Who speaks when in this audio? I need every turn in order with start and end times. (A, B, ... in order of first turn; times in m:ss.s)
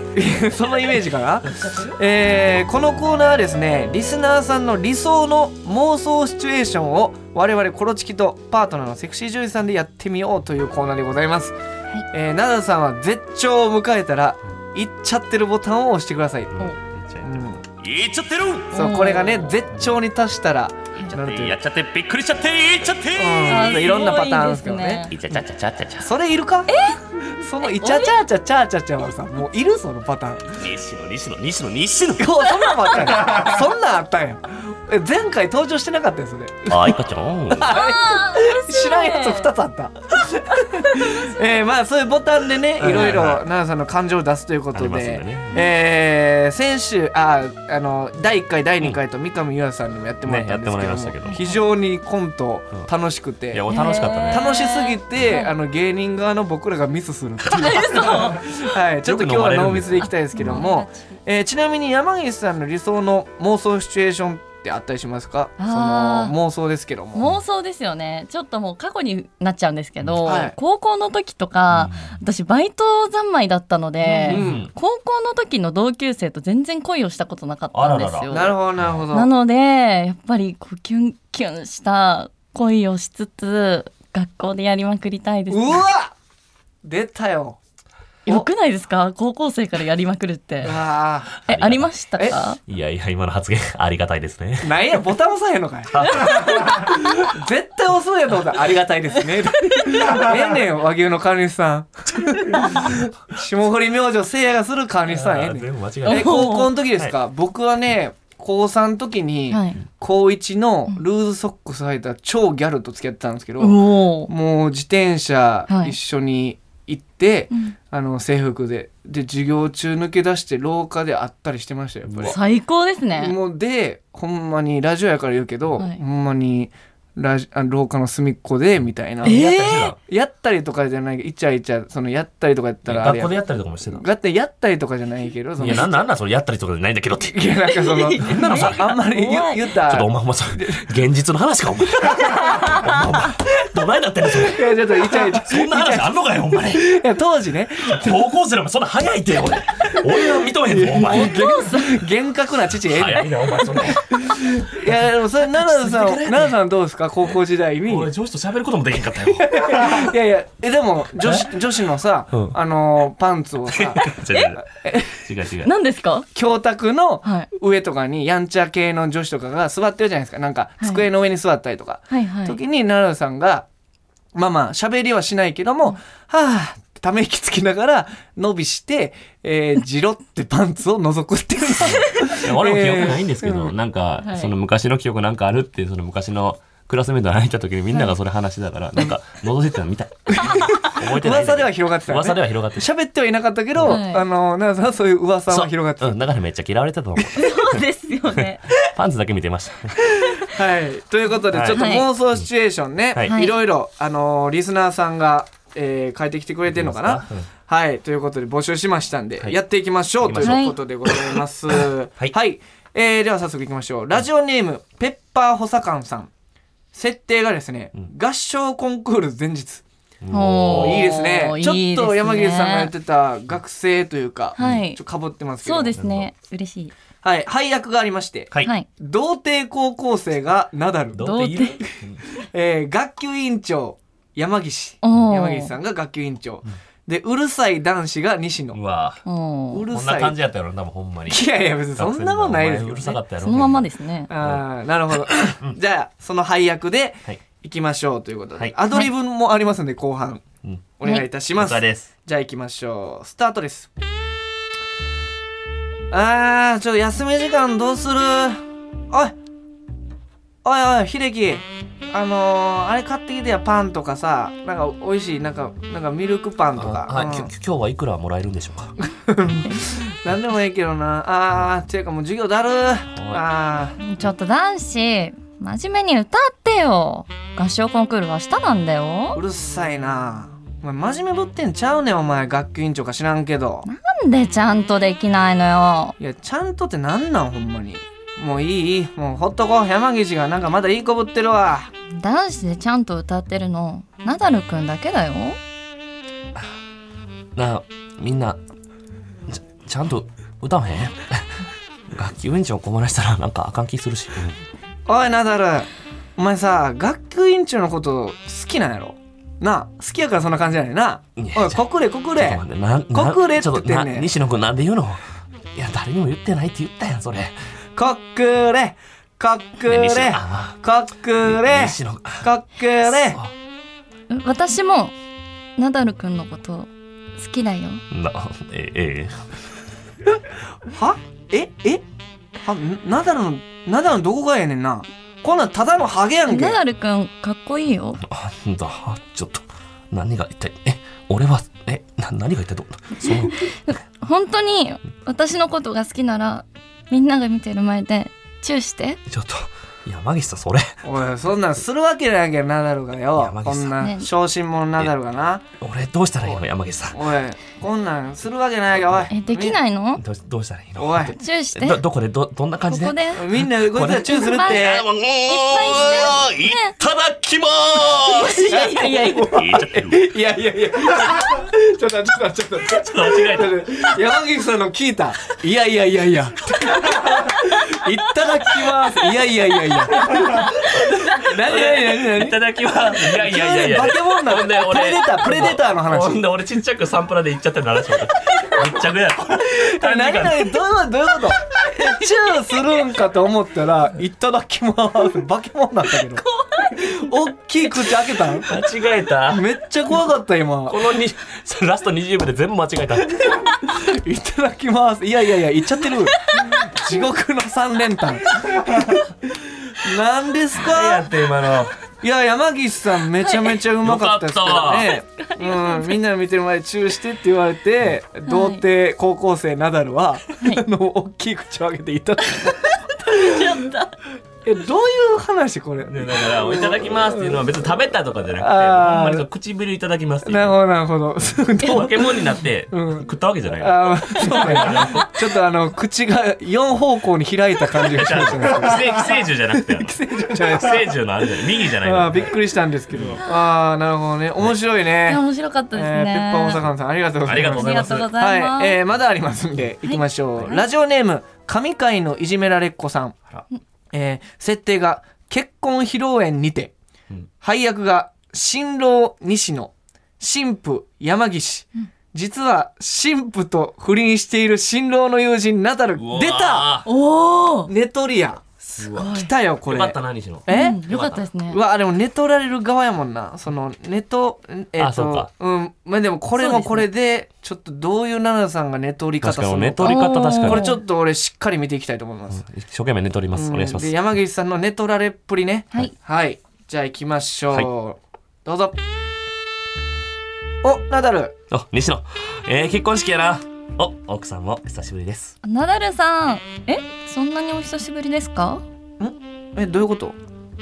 0:00.1-0:11.5 A
0:01.4-0:01.9 B
0:12.1-0:16.6 A
0:16.5-0:18.8 B
0:17.2-0:17.6 A
0:18.7-0:19.5 C
0:18.7-0:21.6 A
0:21.1-0:24.0 B
0:23.1-0:25.1 A
0:23.5-0:25.1 C
0:25.1-0:26.1 B
0:26.0-0:30.6 A
0:26.7-0:27.0 C
0:27.6-0:28.2 C
0:30.5-0:32.4 B
0:32.2-0:37.0 A
0:32.7-0:32.9 C
0:36.7-0:37.7 B
0:37.5-0:53.8 A
0:37.6-0:39.5 C
0:40.7-0:41.2 C
0:42.8-0:43.4 B
0:44.7-0:45.6 B
0:50.2-0:51.4 B
0:51.2-0:51.6 C
0:53.5-0:54.6 B
0:53.7-0:55.5 C
0:54.3-1:07.3 A
0:57.5-0:58.4 C
0:57.9-0:58.3 B
0:59.0-1:00.6 B
1:00.0-1:01.2 C
1:05.6-1:06.3 C
1:07.1-1:18.6 C
1:10.2-1:10.5 A
1:11.7-1:12.1 B
1:14.2-1:14.7 B
1:14.2-1:14.7 A
1:17.7-1:19.1 B
1:18.3-1:19.3 A
1:19.1-1:25.8 C
1:25.5-1:26.1 A
1:26.8-1:27.6 A
1:28.2-1:30.7 C
1:30.6-1:31.4 A
1:31.4-1:32.6 C
1:31.5-1:31.9 B
1:32.7-1:34.8 B
1:34.6-2:02.4 A
1:35.9-1:36.7 B
1:36.0-1:36.8 C
1:45.0-1:47.1 B
1:46.0-1:46.7 C
1:49.5-1:49.8 C
1:53.6-1:54.3 C
1:55.7-1:55.9 C
2:02.0-2:02.4 B
2:02.2-2:03.4 C
2:03.2-2:16.0 A
2:09.2-2:10.0 B
2:09.2-2:09.9 C
2:12.8-2:14.0 B
2:15.6-2:17.4 B
2:17.2-2:20.9 A
2:17.7-2:19.7 C
2:18.2-2:18.8 B
2:19.8-2:26.9 B
2:22.2-2:23.0 C
2:24.4-2:28.3 A
2:27.8-2:31.4 B
2:29.9-2:38.1 A
2:31.0-2:32.0 C
2:32.7-2:35.0 B
2:35.5-2:36.6 B
2:37.8-2:40.1 B
2:39.3-2:45.3 A
2:41.2-2:41.5 B
2:43.7-2:44.6 B
2:44.3-2:44.6 C
2:45.2-2:45.7 B
2:45.6-2:46.2 C
2:46.3-2:53.6 A
2:52.1-2:52.6 C
2:54.3-3:03.7 A
3:01.8-3:02.3 C
3:01.8-3:12.9 B
3:04.2-3:04.5 C
3:10.3-3:16.2 A
3:13.8-3:14.2 C
3:15.5-3:20.1 B
3:17.4-3:18.6 C
3:20.2-3:36.3 A
3:21.5-3:22.4 B
3:21.7-3:22.1 C
3:23.2-3:23.5 C
3:26.7-3:27.5 B
3:30.2-3:32.3 B
3:30.4-3:30.8 C
3:36.9-3:39.8 A
3:40.2-3:41.2 B
3:40.3-3:42.9 C
3:40.7-3:46.0 A
3:44.6-3:45.0 C
3:44.6-3:44.8 B
3:45.6-3:46.9 C
3:46.0-3:46.3 B
3:47.2-3:51.3 A
3:51.1-3:52.2 B
3:51.2-3:51.8 C
3:52.4-3:58.8 A
3:55.0-3:55.7 C
3:58.7-3:59.2 B
3:59.2-3:59.8 C
3:59.7-4:00.4 A
3:59.9-4:03.9 B
4:01.3-4:03.2 A
4:03.4-4:04.3 C
4:04.3-4:10.4 A
4:04.4-4:05.8 B
4:11.0-4:13.9 A
4:11.5-4:12.1 B
4:16.1-4:19.3 A
4:20.6-4:27.5 A
4:26.8-4:29.0 B
4:29.0-4:34.0 A
4:33.2-4:33.4 B
4:34.0-4:39.4 C
4:39.3-4:43.9 A
4:43.8-4:46.2 C
4:46.2-4:51.9 A
4:52.1-4:55.6 C
4:57.5-4:58.6 B
4:59.5-5:04.6 B
5:05.1-5:14.3 A
5:11.4-5:11.8 B
5:12.3-5:15.2 B
5:15.7-5:17.5 B
5:18.0-5:23.4 A
5:19.8-5:20.8 B
5:21.4-5:22.5 B
5:23.0-5:23.5 B
5:24.3-5:25.1 C
5:25.8-5:28.0 C
5:28.1-5:29.5 B
5:30.9-5:32.0 A
5:32.6-5:36.8 A
5:36.5-5:38.2 C
5:38.2-5:43.7 B
5:43.2-5:49.2 C
5:49.3-5:50.9 B
5:51.0-5:55.6 A
5:53.3-5:54.0 B
5:54.0-5:54.3 C
5:55.8-5:57.2 B
5:57.1-5:59.8 A
5:59.3-6:00.2 C
6:00.2-6:10.3 B
6:01.0-6:01.4 A
6:01.2-6:02.0 C
6:02.9-6:03.4 C
6:03.3-6:05.1 A
6:04.1-6:04.9 C
6:05.4-6:07.0 C
6:08.2-6:09.6 C
6:08.7-6:22.6 A
6:12.8-6:14.1 B
6:20.5-6:30.8 B
6:23.2-6:26.4 A
6:29.6-6:38.7 A
6:36.4-6:37.3 C
6:37.9-6:38.1 C
6:38.7-6:39.6 B
6:39.5-6:41.0 A
6:40.9-6:43.4 B
6:43.5-6:51.3 A
6:46.3-6:46.9 C
6:50.8-6:51.9 B
6:52.2-7:03.8 A
6:53.4-6:53.8 C
6:54.0-6:55.1 B
6:55.1-6:56.2 C
6:58.5-6:58.8 C
7:02.6-7:04.2 C
7:04.6-7:07.7 A
7:06.0-7:10.8 B
7:08.6-7:09.5 A
7:10.4-7:33.4 A
7:11.8-7:15.3 B
7:18.0-7:22.6 B
7:23.1-7:23.4 B
7:25.3-7:26.8 C
7:27.4-7:28.3 B
7:27.6-7:29.0 C
7:30.0-7:30.8 C
7:34.1-7:36.9 A
7:37.6-7:47.0 A
7:46.2-7:47.1 B
7:47.0-7:47.9 C
7:47.9-7:48.6 A
7:49.0-7:51.4 B
7:49.0-7:49.5 C
7:49.2-7:51.0 A
7:50.7-7:51.8 C
7:51.7-8:02.6 A
7:55.0-7:55.5 B
7:56.6-7:57.1 C
7:59.4-8:00.9 B
8:00.0-8:01.0 C
8:02.5-8:04.1 B
8:03.5-8:09.0 A
8:10.8-8:11.5 A
8:11.7-8:15.6 B
8:15.6-8:18.8 C
8:19.2-8:20.4 A